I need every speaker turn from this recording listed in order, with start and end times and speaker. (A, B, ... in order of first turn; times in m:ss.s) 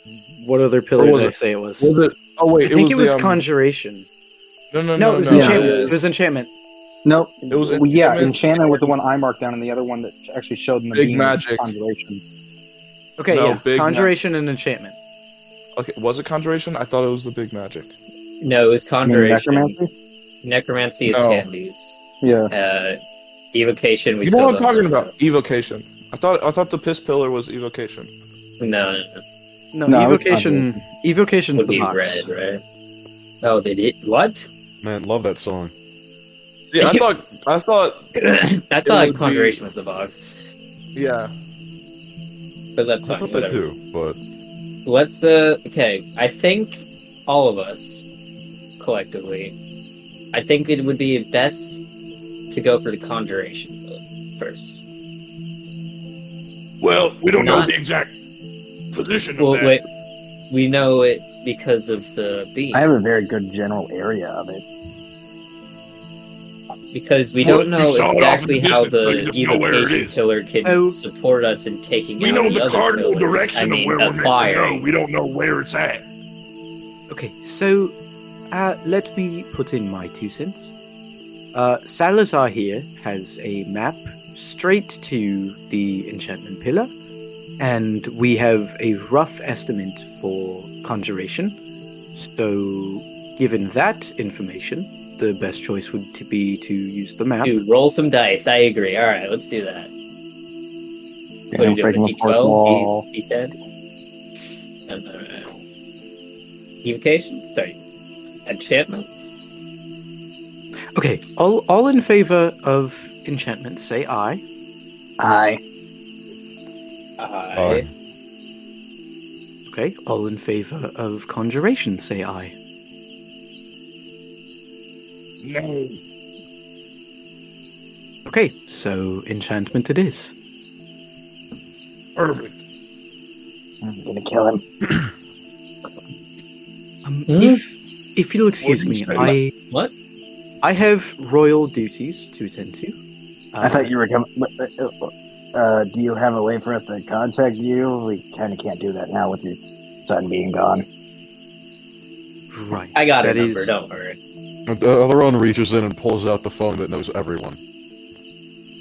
0:00.4-0:01.9 A
0:01.0-0:03.4 B
0:02.6-0:04.0 A
0:04.7-0:05.9 B
0:05.0-0:06.5 A
0:05.3-0:05.8 C
0:05.3-0:05.9 D
0:07.0-0:12.2 C
0:07.5-0:08.3 B
0:10.9-0:11.7 B
0:13.2-0:15.0 A
0:13.3-0:14.1 B
0:15.8-0:17.9 B
0:18.4-0:19.8 D
0:19.0-0:19.9 C
0:20.4-0:23.0 D
0:21.1-0:21.4 B
0:22.2-0:22.5 C
0:23.5-0:25.1 D
0:24.2-0:28.1 B
0:28.6-0:29.2 D
0:29.7-0:32.3 A
0:29.9-0:30.7 C
0:31.5-0:32.6 D
0:33.4-0:34.5 D
0:34.8-0:35.7 E
0:36.7-0:38.1 B
0:36.8-0:37.0 D
0:38.1-0:40.4 D
0:38.8-0:39.6 B
0:40.9-0:41.3 B
0:42.8-0:43.6 D
0:43.0-0:44.2 E
0:44.8-0:48.0 D
0:48.8-0:49.6 D
0:50.3-0:51.8 D
0:52.5-0:54.8 D
0:56.8-0:58.1 B
0:57.3-0:57.7 D
0:58.9-0:59.8 B
0:59.4-0:59.8 D
1:00.5-1:02.9 D
1:02.7-1:04.6 C
1:06.9-1:14.9 D
1:07.4-1:10.2 B
1:10.6-1:11.0 A
1:12.2-1:16.0 B
1:17.1-1:17.9 A
1:18.5-1:20.7 A
1:21.5-1:26.9 A
1:27.6-1:31.6 A
1:32.1-1:37.6 A
1:37.4-1:39.9 D
1:41.5-1:43.0 C
1:41.5-1:43.5 D
1:44.9-1:45.5 D
1:46.8-1:47.8 D
1:48.4-1:49.1 D
1:51.0-1:54.4 A
1:55.2-1:55.6 C
1:57.2-1:57.8 D
1:57.5-1:57.9 E
1:59.7-2:02.5 A
2:05.4-2:06.0 B
2:08.2-2:10.3 A
2:12.2-2:12.6 B
2:13.8-2:14.6 C
2:17.0-2:19.5 A
2:17.3-2:17.6 D
2:18.6-2:19.3 B
2:20.6-2:23.0 A
2:23.5-2:23.9 A
2:23.6-2:30.8 C
2:32.5-2:33.7 A
2:32.9-2:34.2 D
2:34.7-2:37.6 E